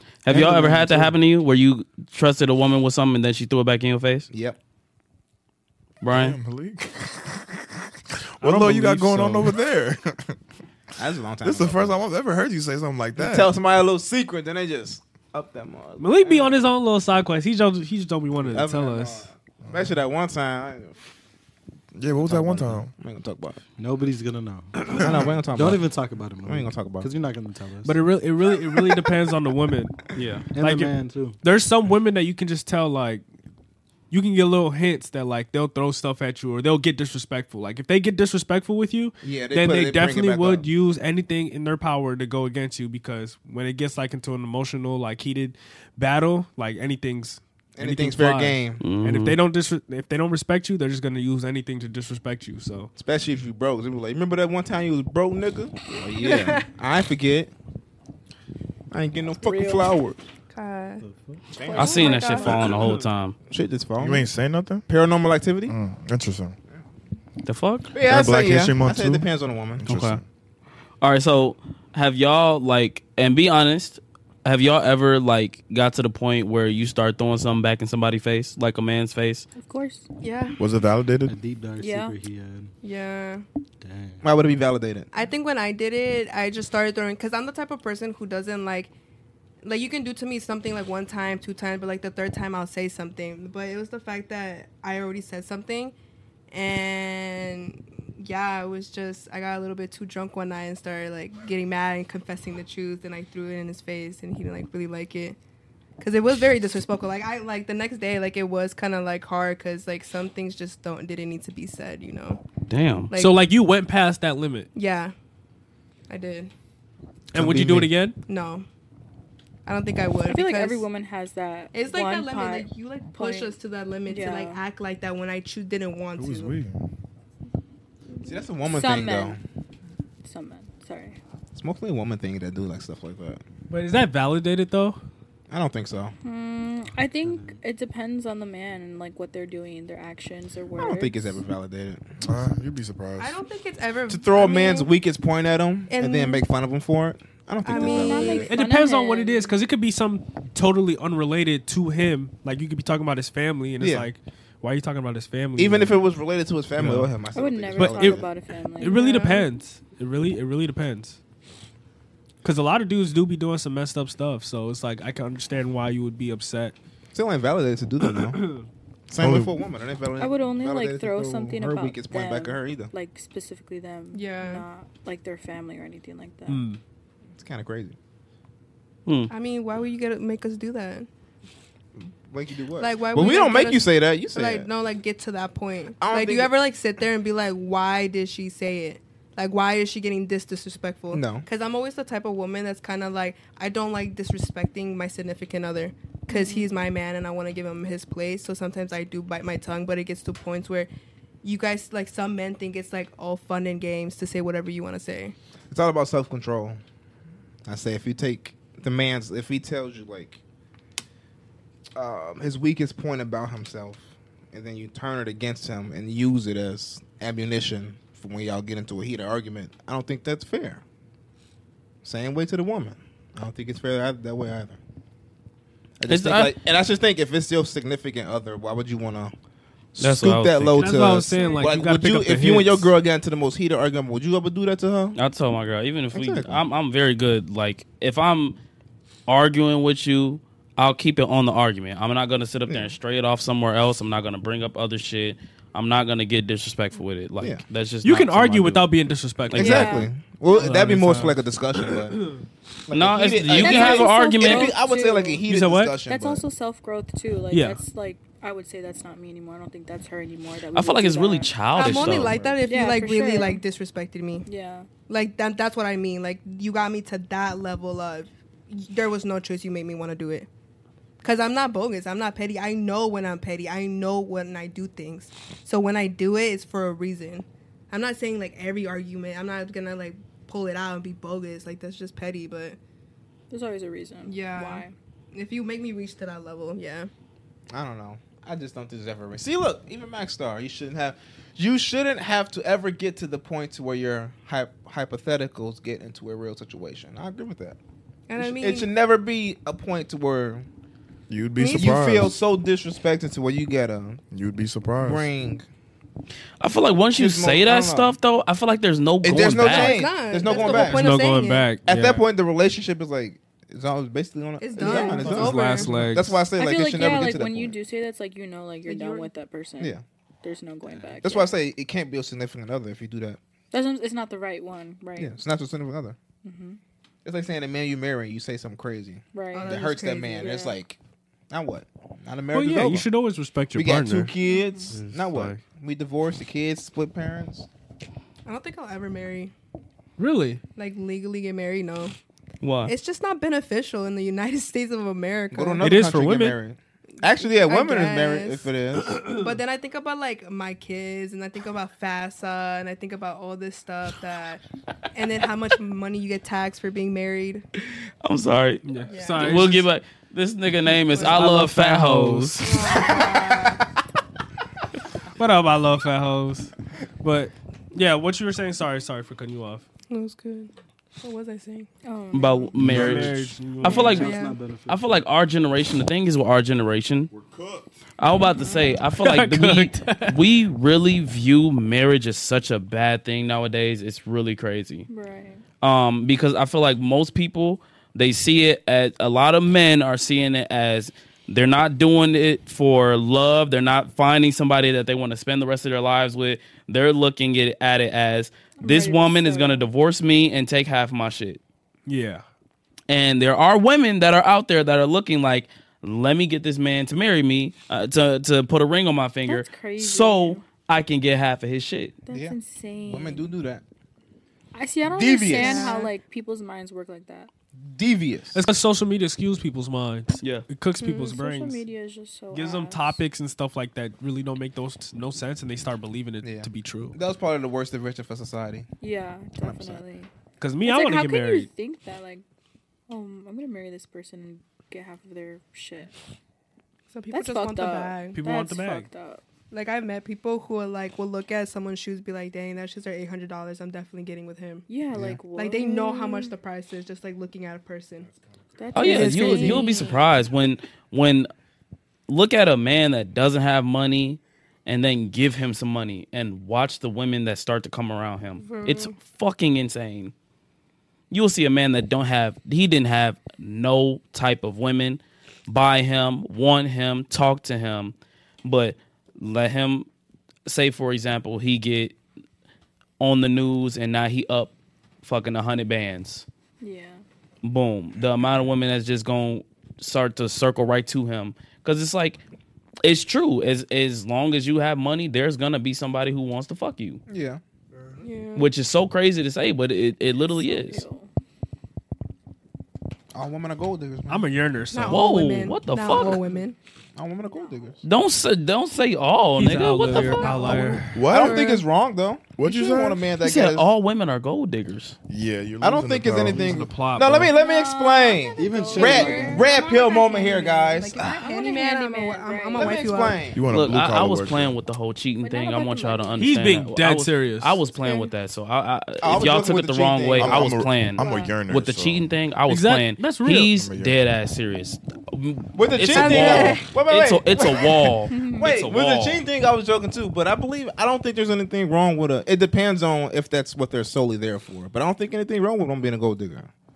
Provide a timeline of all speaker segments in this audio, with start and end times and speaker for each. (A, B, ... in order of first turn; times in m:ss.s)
0:00.2-0:04.3 A
0:00.3-0:01.0 B
0:04.3-0:04.6 C
0:06.0-0:06.4 A
0:06.0-0:10.4 D
0:08.4-0:09.5 E
0:11.0-0:12.0 C
0:11.4-0:13.5 D
0:13.1-0:16.7 C
0:16.0-0:19.3 E
0:18.4-0:21.2 C
0:19.6-0:20.0 D
0:21.9-0:22.9 D
0:22.2-0:23.6 C
0:23.8-0:28.0 B
0:24.9-0:27.1 C
0:27.8-0:33.2 E
0:30.1-0:30.4 A
0:30.5-0:31.4 B
0:34.1-0:52.9 E
0:39.2-0:40.7 C
0:47.8-0:48.9 C
0:48.8-0:49.4 A
0:52.9-0:57.5 C
0:56.2-0:56.7 F
0:58.9-1:00.2 C
0:59.4-0:59.8 G
1:00.5-1:01.0 F
1:01.0-1:01.4 B
1:01.5-1:02.5 C
1:01.6-1:02.7 G
1:01.7-1:03.4 A
1:01.8-1:02.7 F
1:02.5-1:02.8 D
1:02.7-1:03.0 E
1:03.5-1:04.3 C
1:04.0-1:04.8 D
1:04.9-1:05.7 C
1:05.7-1:06.5 D
1:07.4-1:07.9 A
1:07.9-1:09.8 C
1:08.0-1:10.2 D
1:09.8-1:10.2 A
1:11.0-1:19.4 A
1:19.6-1:20.1 G
1:20.2-1:20.6 F
1:20.6-1:21.3 D
1:21.2-1:22.7 B
1:21.8-1:22.1 G
1:22.8-1:23.4 F
1:23.8-1:24.2 B
1:24.2-1:25.1 C
1:25.1-1:28.9 F
1:29.6-1:35.9 F
1:36.5-1:45.4 F
1:46.0-1:52.4 F
1:52.7-1:53.1 A
1:53.1-1:53.4 F
1:53.1-1:54.7 E
1:54.7-1:55.1 F
1:56.1-1:56.5 F
1:57.3-1:57.9 D
1:57.3-1:58.2 E
1:58.2-1:58.6 F
1:59.6-2:00.8 F
2:00.3-2:04.6 G
2:01.7-2:06.6 F
2:06.2-2:06.8 D
2:08.2-2:09.4 C
2:08.6-2:09.4 G
2:10.2-2:11.2 G
2:11.5-2:13.4 C
2:13.7-2:15.0 E
2:15.5-2:16.1 C
2:16.2-2:21.4 G
2:17.2-2:17.6 B
2:20.8-2:22.0 C
2:22.2-2:23.4 D
2:23.2-2:24.9 F
2:24.1-2:28.5 C
2:25.9-2:26.5 F
2:27.6-2:28.5 F
2:27.6-2:29.5 G
2:28.4-2:36.0 E
2:33.8-2:34.1 C
2:35.6-2:38.3 C
2:36.8-2:37.1 E
2:37.3-2:39.2 G
2:37.7-2:38.2 E
2:38.8-2:41.2 E
2:38.8-2:39.4 F
2:42.4-2:46.8 E
2:47.1-2:48.4 C
2:48.2-2:48.6 E
2:49.1-2:52.9 C
2:49.2-2:49.6 D
2:50.2-2:56.6 G
2:54.1-2:54.6 F
2:56.5-2:56.8 E
2:57.3-2:58.0 C
2:59.0-2:59.3 A
2:59.3-3:01.1 F
3:02.0-3:04.7 C
3:02.8-3:20.9 F
3:06.0-3:06.5 C
3:11.1-3:11.4 C
3:16.3-3:16.7 G
3:21.4-3:25.4 F
3:25.7-3:26.8 C
3:27.6-3:30.4 C
3:32.0-3:40.8 C
3:42.0-3:44.8 C
3:46.0-3:49.3 C
3:46.1-3:46.5 A
3:50.0-3:55.2 C
3:50.0-3:50.9 A
3:50.8-3:52.9 E
3:51.0-3:51.7 G
3:55.1-3:58.6 A
3:56.1-3:56.6 C
3:59.3-4:08.9 A
4:02.7-4:03.0 C
4:08.0-4:12.3 E
4:09.5-4:09.8 A
4:09.5-4:12.2 C
4:09.6-4:10.1 G
4:12.9-4:16.4 C
4:12.9-4:14.7 A
4:13.5-4:15.4 G
4:15.4-4:16.0 E
4:16.0-4:22.0 G
4:17.5-4:17.8 E
4:20.7-4:22.5 A
4:21.7-4:24.4 F
4:21.9-4:22.5 C
4:22.6-4:23.6 G
4:24.4-4:24.9 G
4:25.1-4:30.5 F
4:31.2-4:42.8 F
4:43.5-4:44.9 G
4:44.2-4:47.1 F
4:47.7-4:57.8 C
4:58.3-4:58.9 F
4:58.4-5:00.7 C
5:01.3-5:02.3 D
5:01.6-5:02.0 F
5:01.6-5:04.2 C
5:04.3-5:05.3 D
5:05.0-5:05.6 C
5:06.6-5:10.0 A
5:07.1-5:08.2 C
5:09.2-5:11.1 C
5:09.6-5:11.8 F
5:10.6-5:12.3 E
5:11.8-5:17.8 C
5:14.6-5:15.9 F
5:14.8-5:16.4 E
5:14.8-5:15.1 G
5:16.6-5:21.5 G
5:18.8-5:19.3 F
5:20.9-5:21.2 B
5:21.2-5:23.4 C
5:23.7-5:25.3 G
5:25.2-5:26.2 C
5:26.4-5:26.8 G
5:27.2-5:31.0 C
5:29.3-5:30.8 G
5:29.5-5:30.6 F
5:31.5-5:33.1 C
5:32.5-5:34.3 E
5:33.7-5:37.7 C
5:34.4-5:34.9 G
5:34.9-5:35.6 E
5:38.4-5:39.5 F
5:40.2-5:40.6 E
5:40.8-5:42.1 F
5:42.6-5:42.9 A
5:42.8-5:45.8 F
5:45.5-5:49.2 C
5:45.8-5:46.6 E
5:47.4-5:48.7 F
5:49.1-5:49.5 E
5:49.2-5:54.6 F
5:55.1-5:57.6 F
5:58.2-6:02.7 A
5:58.8-5:59.9 E
5:59.1-5:59.6 F
6:01.1-6:01.4 F
6:01.2-6:02.7 E
6:02.6-6:03.8 F
6:03.0-6:03.7 G
6:05.4-6:09.8 E
6:10.1-6:11.9 F
6:12.0-6:12.7 G
6:12.3-6:17.3 A
6:12.8-6:13.3 B
6:12.8-6:14.3 E
6:13.8-6:15.0 B
6:14.1-6:14.6 F
6:17.3-6:17.9 D
6:18.2-6:25.1 A
6:18.4-6:19.0 G
6:19.2-6:20.4 E
6:25.1-6:25.6 G
6:25.8-6:41.6 A
6:38.8-6:39.9 G
6:42.1-6:42.4 E
6:43.1-6:52.2 A
6:49.4-6:50.6 G
6:52.2-6:53.5 G
6:52.3-6:53.8 C
6:54.7-6:57.5 G
6:55.0-6:56.0 C
6:55.5-6:56.1 F
6:57.9-6:58.6 C
6:58.5-7:01.8 E
7:00.4-7:00.6 A
7:01.0-7:03.2 G
7:02.5-7:07.2 E
7:06.4-7:08.9 C
7:09.0-7:10.3 G
7:09.6-7:10.0 C
7:10.6-7:11.7 E
7:10.8-7:12.4 G
7:13.1-7:16.1 G
7:17.1-7:18.4 F
7:17.3-7:19.4 G
7:18.3-7:19.1 E
7:19.7-7:24.9 F
7:24.9-7:26.5 G
7:25.5-7:28.3 F
7:28.8-7:30.3 G
7:28.9-7:31.5 A
7:29.4-7:29.8 F
7:32.3-7:40.3 A
7:38.6-7:39.1 F
7:41.3-7:50.1 A
7:50.6-7:52.2 A
7:53.2-7:56.4 A
7:56.8-7:57.2 G
7:57.6-8:02.4 A
8:03.0-8:07.2 A
8:07.3-8:07.6 C
8:08.2-8:08.7 F
8:08.6-8:11.0 A
8:10.3-8:11.3 G
8:13.3-8:14.5 C
8:14.3-8:15.3 E
8:14.9-8:16.8 F
8:15.1-8:16.4 A
8:17.2-8:18.0 C
8:18.0-8:20.8 A
8:19.5-8:21.2 E
8:20.1-8:21.8 F
8:20.7-8:23.9 C
8:21.1-8:21.6 D
8:22.6-8:23.3 D
8:23.4-8:25.2 A
8:25.3-8:26.9 D
8:25.8-8:31.4 C
8:26.5-8:27.5 E
8:27.5-8:33.3 G
8:28.6-8:29.7 B
8:29.6-8:33.5 F
8:32.8-8:33.6 C
8:33.5-8:34.8 D
8:33.7-8:49.4 A
8:35.4-8:36.5 G
8:36.4-8:37.8 E
8:38.0-8:38.3 F
8:39.2-8:40.8 C
8:40.4-8:42.3 D
8:41.2-8:41.5 G
8:42.7-8:43.7 E
8:43.8-8:44.2 D
8:45.7-8:56.7 C
8:46.1-8:46.9 F
8:48.3-8:48.7 G